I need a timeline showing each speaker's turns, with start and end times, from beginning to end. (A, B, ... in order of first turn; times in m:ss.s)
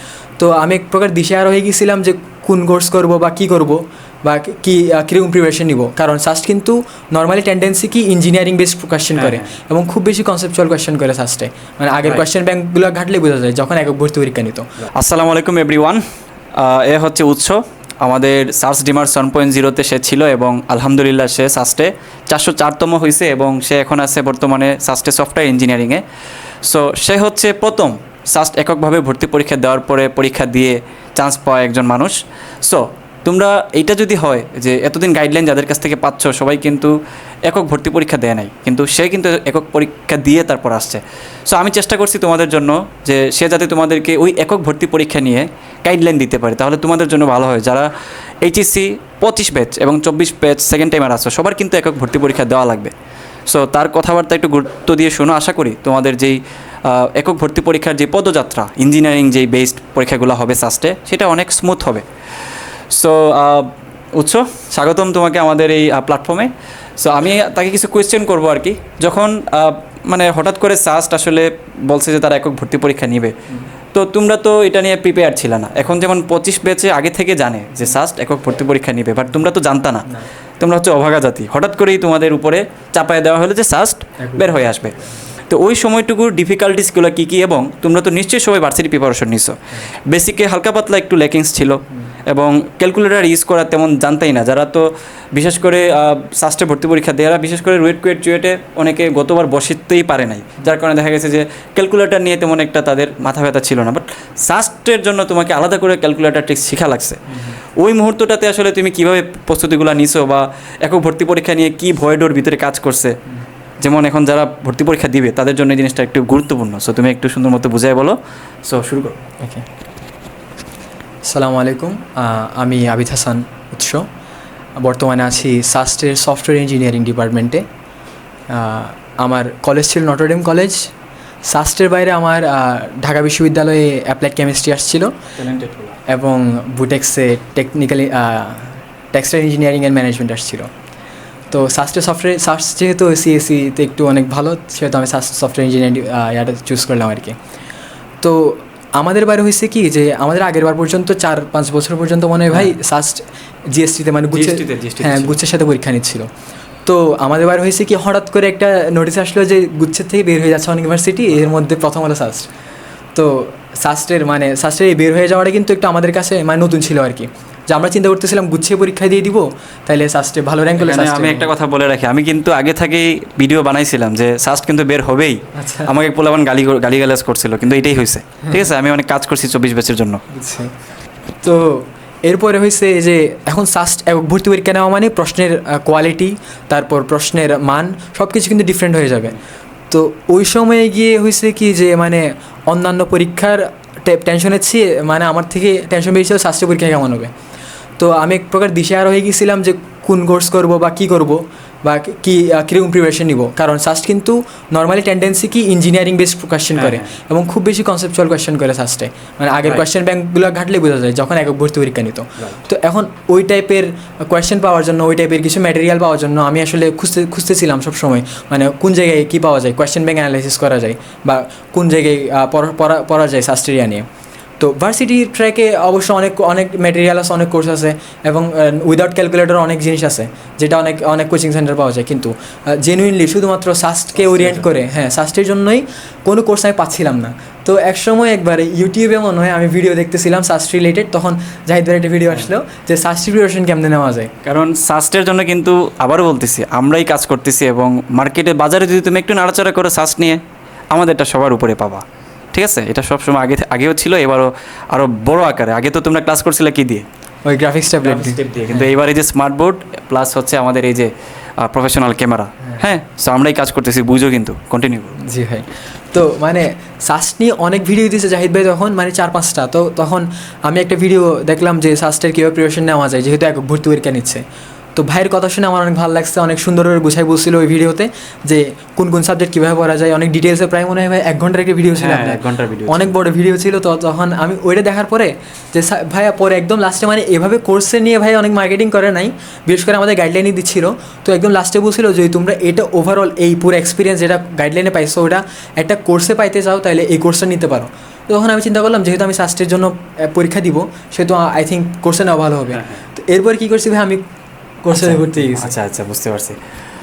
0:00.4-0:14.6 A
0:09.2-0:09.5 B
0:15.0-0:16.0 B
0:16.6-0:26.0 B
0:26.6-0:36.9 B
0:37.5-0:47.9 B
0:48.4-0:52.9 B
0:53.5-1:02.0 B
1:02.9-1:06.5 B
1:07.0-1:13.3 B
1:13.9-1:20.0 B
1:20.6-1:25.0 B
1:24.2-1:25.1 A
1:25.5-1:47.2 B
1:47.8-1:53.1 B
1:53.8-1:59.2 B
2:01.2-2:04.1 A
2:04.8-2:07.6 A
2:08.5-2:10.9 A
2:11.5-2:15.1 A
2:15.4-2:16.0 B
2:16.1-2:20.7 A
2:21.5-2:27.4 A
2:28.2-2:36.3 A
2:34.3-2:35.4 B
2:36.8-2:42.5 A
2:43.1-2:51.5 A
2:50.8-3:00.2 B
2:55.6-2:55.9 A
3:00.3-3:00.7 A
3:01.4-3:09.4 A
3:09.9-3:17.3 A
3:18.0-3:44.0 A
3:26.8-3:27.1 B
3:44.6-4:04.3 A
3:54.2-3:54.7 B
4:04.4-4:10.4 B
4:10.9-4:17.0 B
4:17.4-4:18.9 A
4:18.0-4:21.1 B
4:21.6-4:25.2 B
4:25.2-4:34.4 A
4:35.0-5:04.2 A
4:42.0-4:43.1 B
5:02.7-5:03.0 B
5:04.8-5:05.7 A
5:04.9-5:06.6 B